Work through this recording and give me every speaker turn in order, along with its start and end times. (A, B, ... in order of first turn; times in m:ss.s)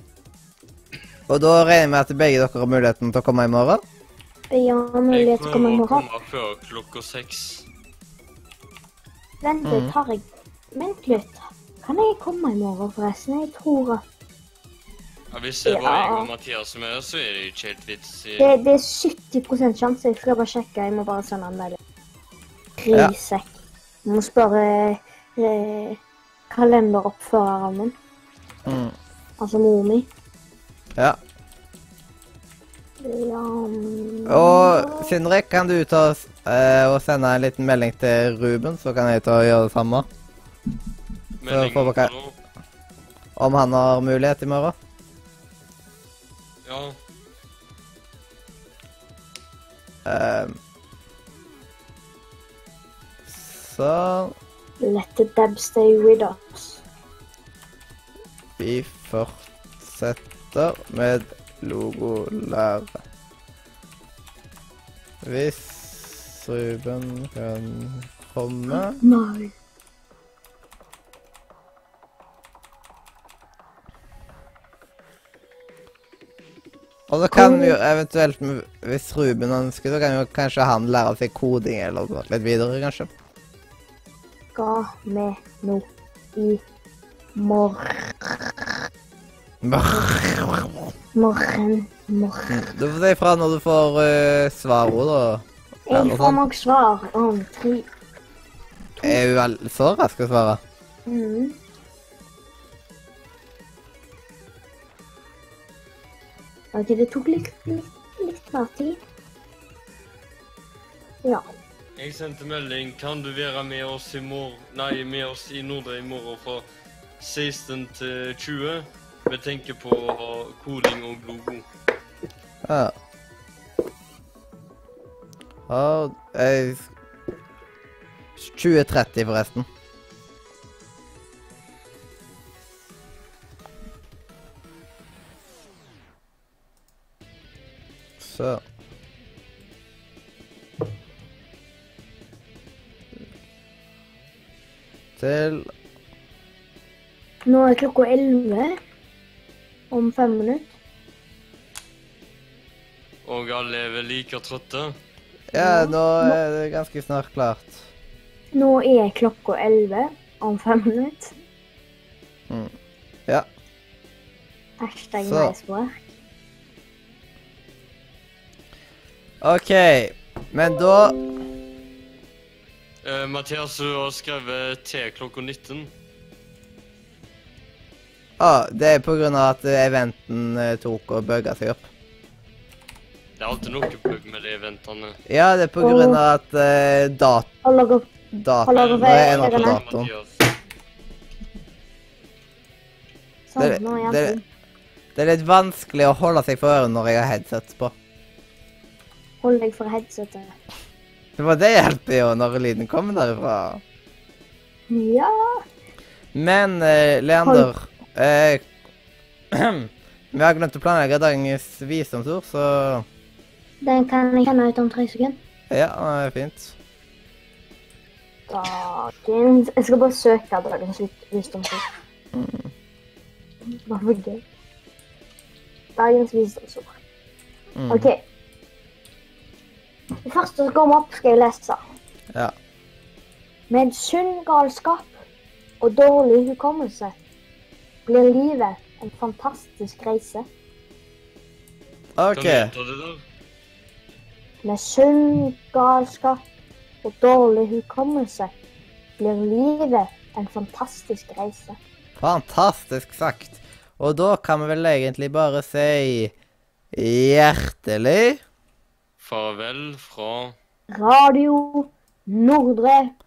0:01.3-0:03.8 A
0:04.5-0:06.0 B
0:05.1-0:07.6 C
0:09.4-0:14.0 B
0:09.6-0:09.9 A
0:15.3-0:18.5 C
0:15.6-0:16.3 B
0:18.4-0:21.8 B
0:22.8-0:23.5 B
0:24.0-0:26.0 B
0:26.5-0:27.9 B
0:28.6-0:28.9 A
0:29.4-0:30.1 B
0:33.0-0:35.1 B
0:34.2-0:40.0 A
0:41.4-0:42.4 C
0:41.5-0:42.1 A
0:43.4-0:44.7 A
0:46.6-0:47.0 C
0:50.0-0:50.6 A
0:53.3-0:54.3 A
0:54.8-0:56.8 B
0:58.6-1:03.0 A
1:05.2-1:09.0 A
1:08.7-1:09.5 B
1:17.1-1:23.1 A
1:17.3-1:17.8 B
1:24.5-1:26.6 B
1:27.3-1:28.3 B
1:29.6-1:30.9 A
1:31.1-1:32.7 B
1:32.5-1:36.4 A
1:35.9-1:37.9 B
1:39.0-1:40.6 A
1:41.0-1:41.6 B
1:46.7-1:49.0 B
1:52.0-1:56.6 C
1:57.2-2:01.6 C
2:02.6-2:02.9 A
2:05.7-2:06.9 A
2:08.4-2:09.7 A
2:18.2-2:18.6 A
2:25.2-2:25.7 A
2:27.4-2:28.8 B
2:29.9-2:30.7 B
2:33.2-2:34.9 C
2:35.5-2:37.8 A
2:35.6-2:36.4 B
2:38.5-2:41.3 B
2:44.8-2:46.0 B
2:45.2-2:45.5 A
2:49.4-2:51.2 A
2:53.0-2:55.9 C
2:58.4-3:01.8 A
3:03.4-3:05.2 C
3:05.3-3:07.5 A
3:05.8-3:06.2 B
3:07.6-3:08.1 B
3:08.3-3:10.1 A
3:08.6-3:09.8 B
3:08.7-3:10.3 C
3:13.5-3:14.4 B
3:13.6-3:14.4 A
3:15.1-3:17.9 A
3:19.4-3:20.5 B
3:21.4-3:23.8 A
3:24.9-3:25.6 B
3:26.3-3:28.6 A
3:27.4-3:27.7 B
3:29.5-3:33.0 A
3:33.8-3:35.4 B
3:35.7-3:36.8 A
3:38.5-3:41.9 B
3:42.3-3:42.7 A
3:43.7-3:44.4 B
3:46.0-3:47.0 B
3:47.8-3:48.1 A
3:47.9-3:48.2 B
3:50.2-3:51.8 B
3:53.7-3:55.1 B
3:55.8-3:57.2 B
3:58.0-4:00.5 B
4:02.2-4:02.7 A
4:02.3-4:03.2 C
4:04.6-4:06.4 B
4:07.0-4:08.5 B
4:09.2-4:11.8 B
4:12.2-4:16.3 A
4:16.9-4:18.4 A
4:19.2-4:20.5 C
4:20.9-4:23.1 B